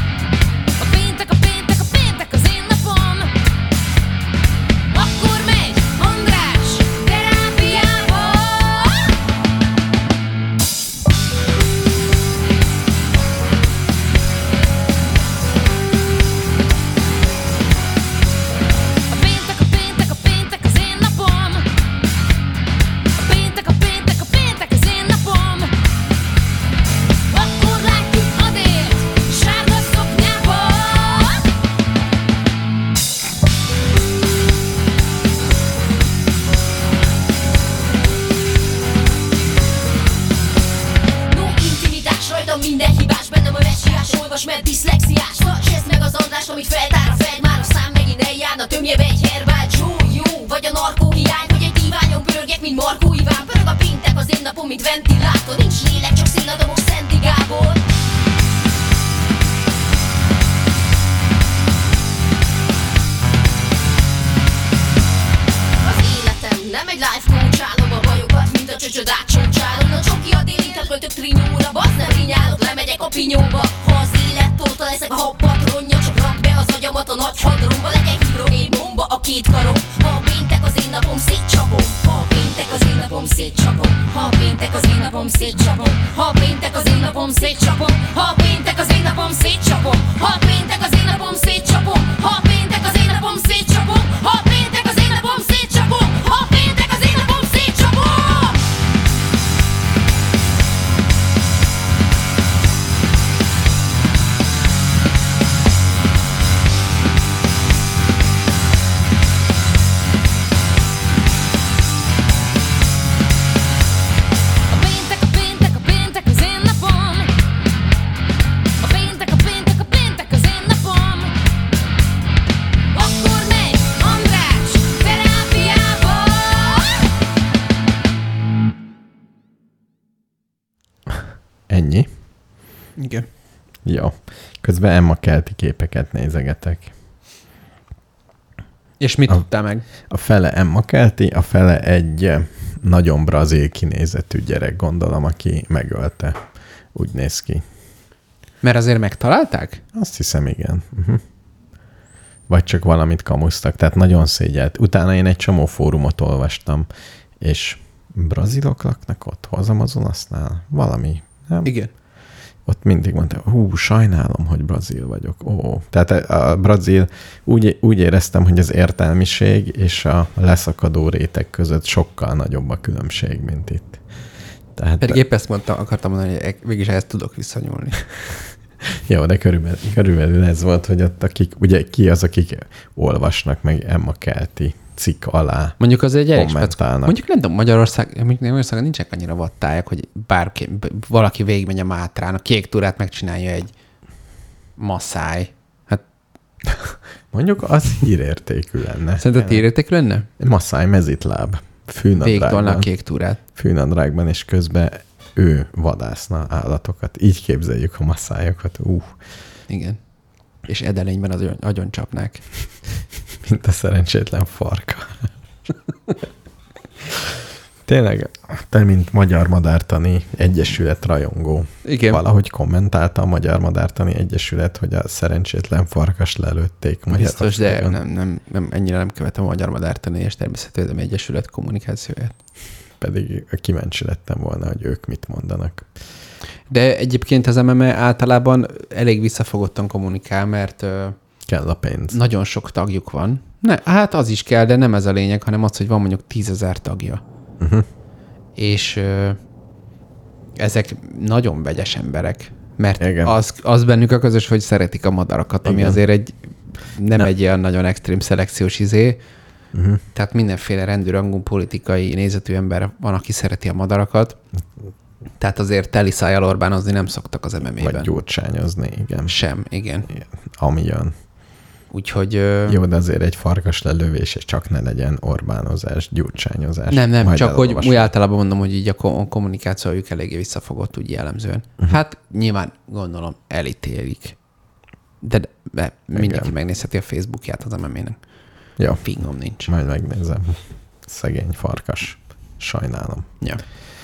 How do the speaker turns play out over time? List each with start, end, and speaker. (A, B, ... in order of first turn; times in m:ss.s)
0:00.8-0:03.4 A
0:04.9-0:09.1 A
0:19.1-0:21.7 A
0:23.1-0:25.8 A
0:27.3-0:31.5 A
0:41.3-0:57.8 A
1:05.8-1:38.6 A
1:54.7-1:57.4 A
1:58.8-2:01.4 A
2:02.9-2:07.0 A
2:11.7-2:12.1 B
2:13.0-2:13.2 C
2:13.8-2:16.9 B
2:19.0-2:19.8 C
2:20.1-2:27.6 B
2:28.6-2:29.8 C
2:29.9-2:31.2 B
2:32.5-2:36.9 B
2:37.4-2:41.7 B
2:41.6-2:41.9 C
2:42.6-2:54.0 B
2:54.8-2:55.2 B
2:55.0-2:58.0 C
2:58.8-3:05.8 B
3:05.8-3:13.7 C
3:06.3-3:07.2 B
3:14.8-3:16.0 C
3:17.3-3:19.7 B
3:19.2-3:20.3 C
3:20.4-3:22.9 B
3:22.2-3:23.4 C
3:23.5-3:29.2 B
3:29.7-3:30.0 C
3:30.7-3:32.4 C
3:33.4-3:35.3 B
3:37.8-3:48.0 B
3:41.8-3:42.2 C
3:47.1-3:52.3 C
3:53.0-3:55.9 B
3:56.7-4:01.2 C
4:01.5-4:02.2 B
4:02.1-4:07.2 C
4:07.6-4:07.9 B
4:08.6-4:09.4 C
4:10.6-4:16.3 C
4:13.0-4:13.4 B
4:15.6-4:16.0 B
4:16.9-4:19.2 C
4:19.7-4:20.0 B
4:20.1-4:24.4 C
4:25.4-4:28.1 C
4:27.8-4:29.4 B
4:29.2-4:30.1 C
4:30.1-4:31.1 B
4:31.9-4:32.8 C
4:32.7-4:38.1 B
4:36.9-4:44.4 C
4:45.2-4:48.2 C
4:46.1-4:46.5 B
4:48.8-4:49.0 B
4:49.0-4:49.7 C
4:49.6-4:53.3 B